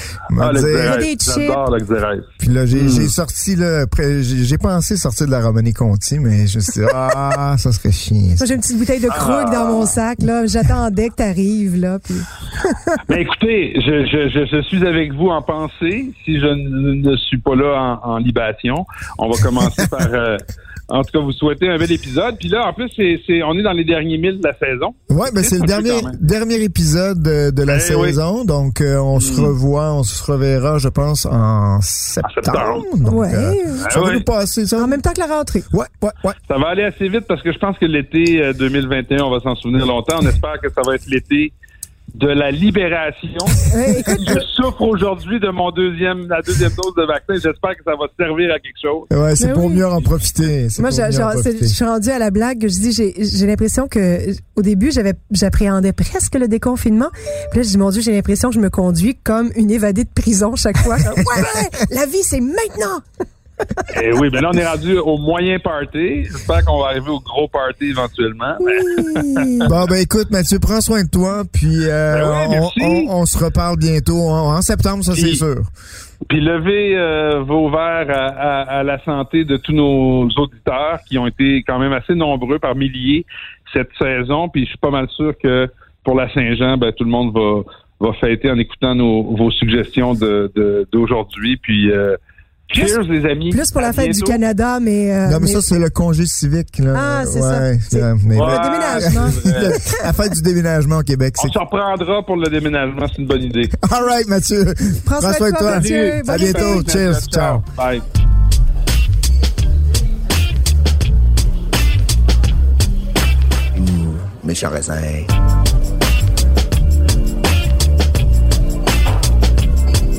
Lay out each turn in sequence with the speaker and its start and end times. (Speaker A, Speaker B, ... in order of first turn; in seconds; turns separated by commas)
Speaker A: 0.3-1.0, Speaker B: 0.4-3.1, Speaker C: 0.8-1.6, Speaker A: 2.4-8.4, Speaker C: 8.4-12.7, Speaker B: 9.1-10.0, Speaker B: 13.1-26.1, Speaker A: 25.1-35.0, Speaker B: 27.7-28.2, Speaker B: 29.2-29.5, Speaker B: 32.2-32.9, Speaker C: 33.1-33.9, Speaker B: 33.9-34.2, Speaker C: 34.8-35.7, Speaker A: 35.7-36.4, Speaker B: 36.5-41.5, Speaker B: 42.2-49.1, Speaker C: 43.7-44.4, Speaker A: 49.1-51.8, Speaker C: 49.4-49.9, Speaker C: 50.8-63.0, Speaker B: 63.9-69.7, Speaker C: 68.8-69.7, Speaker A: 69.7-75.7, Speaker B: 72.1-73.1, Speaker B: 75.2-75.4, Speaker B: 76.3-92.2, Speaker B: 92.7-94.4, Speaker C: 93.5-95.6, Speaker A: 95.3-101.6, Speaker C: 96.9-100.0, Speaker B: 98.3-99.8, Speaker B: 101.4-103.8, Speaker A: 103.8-107.6, Speaker C: 105.1-106.8, Speaker B: 105.6-108.0, Speaker A: 113.8-115.3